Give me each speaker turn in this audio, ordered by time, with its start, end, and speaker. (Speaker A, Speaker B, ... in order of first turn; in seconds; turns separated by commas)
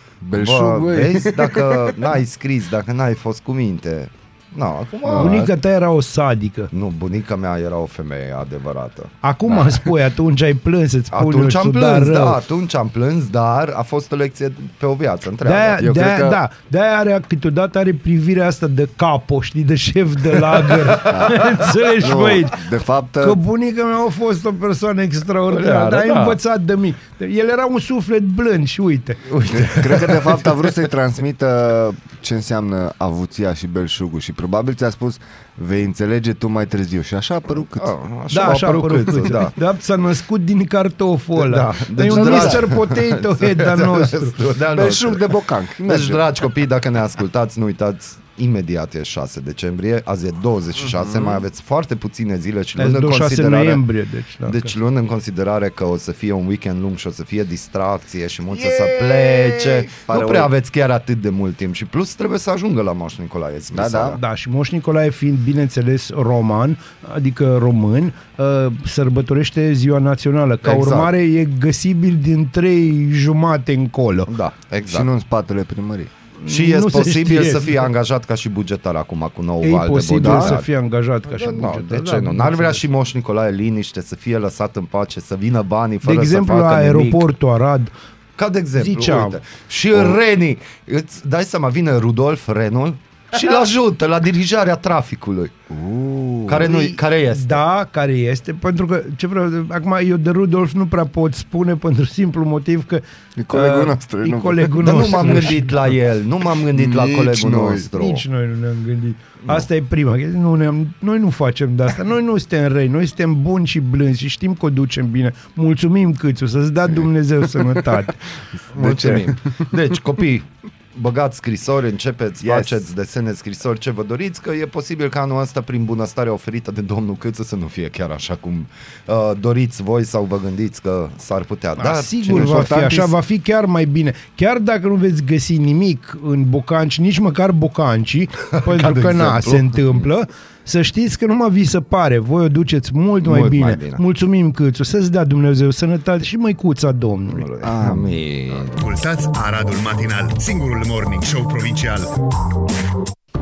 Speaker A: 0.2-2.0, Speaker B: 0.3-5.5, Speaker A: 5.0-5.5, Speaker C: 5.2-6.7, Speaker B: 6.7-9.1, Speaker C: 9.2-12.4, Speaker B: 11.1-15.9, Speaker C: 15.4-22.6, Speaker A: 15.8-16.4, Speaker B: 20.5-21.3, Speaker A: 21.0-23.4, Speaker C: 23.2-29.3, Speaker B: 25.5-26.4, Speaker B: 29.3-30.6, Speaker A: 29.4-37.9, Speaker B: 37.5-39.5, Speaker C: 38.3-44.4, Speaker B: 41.4-53.8, Speaker A: 42.1-42.8, Speaker A: 44.7-46.3, Speaker A: 51.0-51.4, Speaker C: 52.8-54.7, Speaker B: 54.4-64.2, Speaker A: 58.5-60.5, Speaker A: 63.7-64.2, Speaker C: 64.2-74.3, Speaker B: 70.6-71.1, Speaker B: 74.3-75.1, Speaker A: 74.9-76.1, Speaker C: 76.4-77.9, Speaker B: 76.5-80.7, Speaker C: 79.6-82.8, Speaker A: 80.2-80.5, Speaker B: 81.2-87.3, Speaker C: 86.0-87.9, Speaker B: 88.4-95.5, Speaker C: 88.8-89.4, Speaker A: 95.7-96.7, Speaker B: 96.5-97.6, Speaker C: 96.6-105.8, Speaker A: 103.4-105.6, Speaker B: 104.8-108.2, Speaker A: 106.7-107.9, Speaker C: 108.0-118.2, Speaker A: 118.7-119.6, Speaker B: 118.7-132.8, Speaker A: 122.4-122.7, Speaker C: 131.8-147.5, Speaker A: 132.3-133.2, Speaker B: 138.5-140.0, Speaker B: 143.2-144.0, Speaker B: 147.3-148.8, Speaker A: 147.6-148.1, Speaker D: 148.7-152.1